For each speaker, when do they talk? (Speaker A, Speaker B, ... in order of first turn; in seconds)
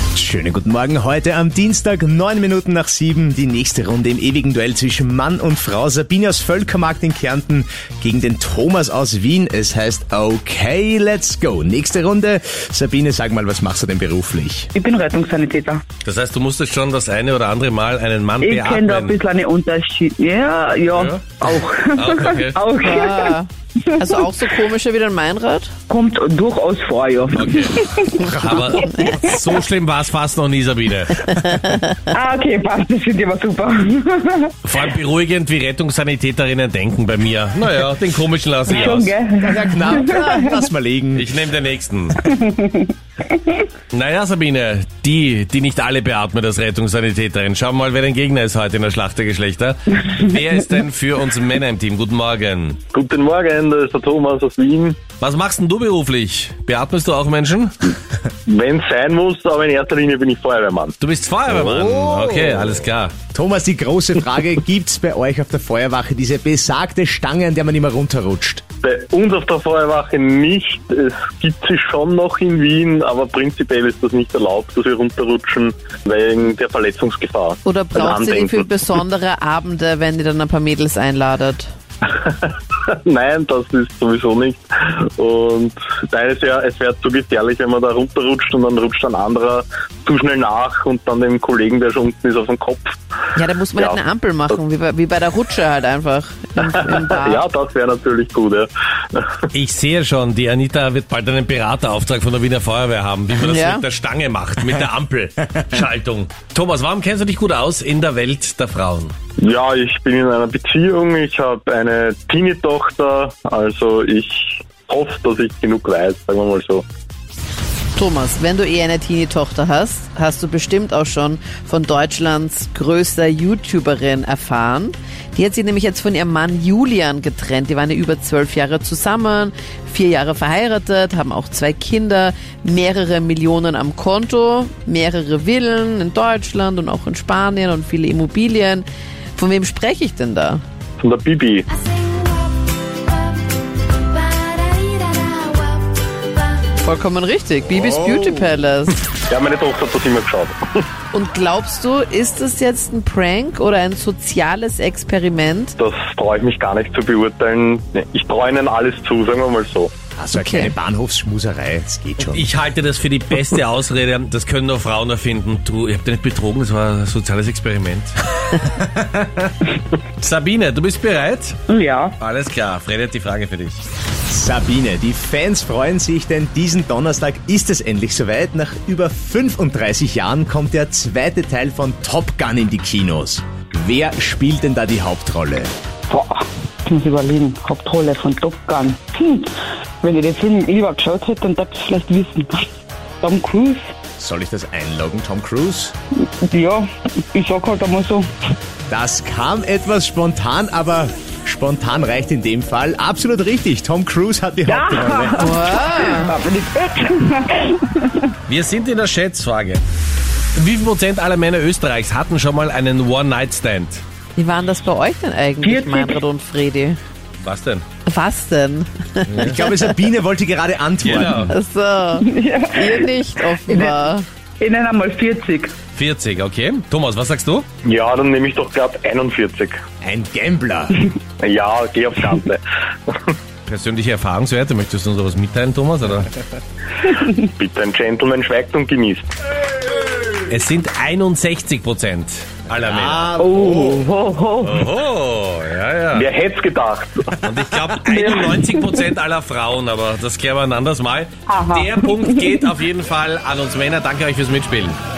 Speaker A: 0.1-14.7, 39.4-41.3, 61.5-68.6, 147.7-148.5, 160.2-162.5, 168.7-169.5, 174.3-185.7, 194.2-195.9, 198.9-205.5, 219.4-221.5, 230.0-231.0, 242.8-244.1
Speaker B: 14.8-15.8, 18.4-23.4, 25.9-28.2, 32.1-34.5, 38.7-40.6, 42.2-43.6, 171.7-172.2, 186.1-192.7, 193.2-193.9, 196.2-198.3, 204.7-208.3, 215.6-216.2, 222.2-224.1, 224.6-225.8, 243.4-244.9, 248.1-248.9, 251.5-252.7
Speaker C: 16.0-19.2, 20.9-22.6, 27.3-31.6, 34.6-39.1, 41.1-42.3, 43.9-52.8, 55.2-57.9, 61.0-63.1, 99.5-109.1, 162.2-168.6, 170.2-171.6, 172.2-173.8, 208.5-209.8, 210.6-214.0, 217.4-217.8, 219.3-219.6, 221.0-221.6, 225.9-227.7, 233.7-236.3, 240.5-243.4, 244.6-246.3, 247.4-255.0
Speaker D: 22.8-25.7, 28.1-29.4, 31.2-31.9, 77.7-81.7, 93.3-97.5, 103.4-103.9, 118.0-140.6, 146.8-149.0, 151.1-155.8, 160.3-160.7, 205.4-206.4, 214.4-217.0, 218.1-219.8, 221.5-224.3
Speaker E: 52.9-55.0, 58.5-60.9, 68.8-78.7, 82.1-93.0, 96.6-99.5, 109.4-116.8, 141.0-141.7, 149.3-150.6, 155.8-159.9, 227.8-229.8, 231.4-233.3, 237.0-239.3, 246.1-247.3
Speaker F: 141.8-142.6, 144.1-146.0